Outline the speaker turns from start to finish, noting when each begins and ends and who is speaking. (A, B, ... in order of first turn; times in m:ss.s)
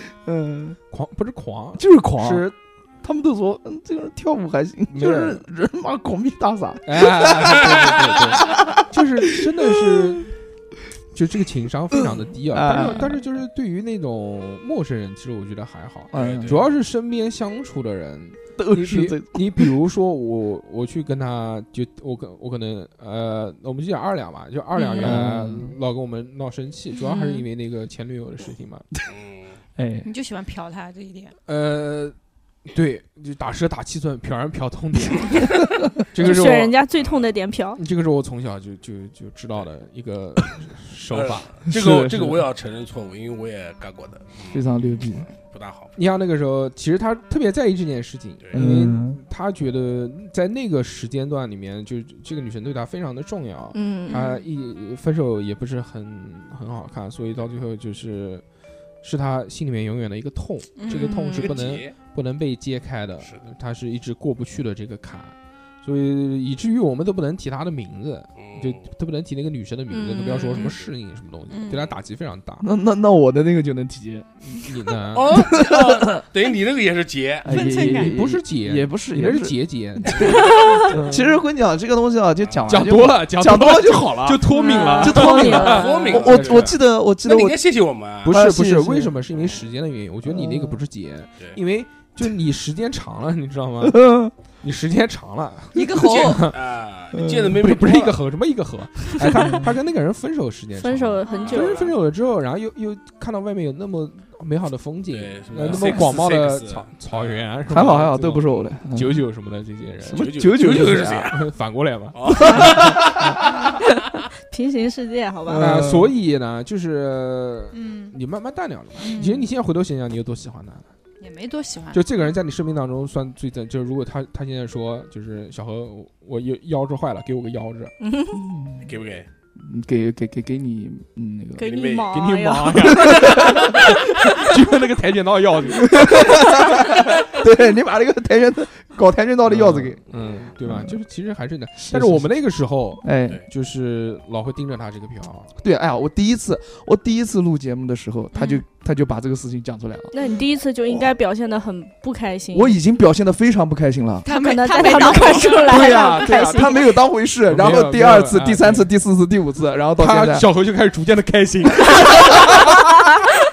0:00.2-0:00.8 A
0:00.9-0:02.5 B
0:01.8-0:10.2 A
0:04.9-0:05.4 B
0:06.8-0:10.3 B
0:11.1-0:28.8 B
0:12.1-0:13.1 A
0:12.8-0:13.1 C
0:16.1-0:16.6 A
0:16.1-0:16.6 D
0:18.6-0:19.7 A
0:24.7-0:25.2 C
0:25.0-0:25.8 A
0:26.9-0:27.4 C
0:29.1-0:29.6 D
0:29.8-0:30.1 A
0:30.0-0:31.3 C
0:31.5-0:32.1 B
0:32.6-0:36.8 B
0:36.2-0:37.8 E
0:37.8-0:41.7 B
0:41.1-0:45.9 D
0:41.7-0:42.4 A
0:44.5-0:45.3 A
0:46.0-0:58.4 B
0:48.5-0:49.2 A
0:53.7-0:54.4 E
0:59.0-1:12.7 B
1:00.8-1:01.6 C
1:00.9-1:01.9 D
1:03.2-1:03.5 D
1:08.4-1:08.8 D
1:09.9-1:10.7 E
1:11.5-1:11.9 C
1:12.6-1:14.3 A
1:14.4-1:15.4 B
1:15.1-1:17.5 D
1:15.3-1:16.2 A
1:17.4-1:24.4 A
1:17.5-1:18.2 C
1:17.8-1:21.4 B
1:20.4-1:20.8 E
1:22.4-1:22.7 D
1:22.7-1:26.8 B
1:24.5-1:25.2 C
1:24.5-1:26.1 E
1:25.0-1:27.6 A
1:25.5-1:28.3 D
1:28.2-1:34.0 B
1:28.3-1:29.1 A
1:29.4-1:29.6 D
1:30.2-1:30.8 A
1:33.8-1:34.3 A
1:34.6-1:36.6 B
1:35.7-1:36.5 C
1:35.9-1:38.1 D
1:37.1-1:38.1 A
1:37.6-1:53.4 B
1:39.4-1:39.7 A
1:40.8-1:41.9 E
1:41.3-1:41.7 D
1:45.1-1:47.4 D
1:47.7-1:49.2 A
1:50.0-1:51.3 A
1:50.1-1:51.5 D
1:52.1-1:53.2 D
1:52.3-1:53.4 A
1:54.5-1:55.7 E
1:55.4-1:56.1 A
1:55.6-2:00.9 B
1:57.7-1:58.2 C
1:59.0-1:59.4 C
2:01.2-2:02.0 C
2:01.9-2:07.9 B
2:08.0-2:08.4 E
2:08.3-2:08.9 A
2:08.8-2:09.3 D
2:09.6-2:11.7 A
2:11.6-2:13.4 E
2:11.6-2:12.1 D
2:12.1-2:16.6 B
2:12.9-2:13.7 A
2:15.8-2:20.0 A
2:19.4-2:25.5 B
2:20.6-2:20.9 A
2:21.8-2:22.2 A
2:23.0-2:23.4 A
2:25.6-2:30.1 A
2:28.3-2:28.6 C
2:30.1-2:32.8 E
2:32.5-2:34.3 A
2:34.2-2:36.0 C
2:34.2-2:36.8 E
2:35.7-2:40.5 A
2:35.9-2:36.8 B
2:37.5-2:38.9 B
2:40.0-2:42.8 B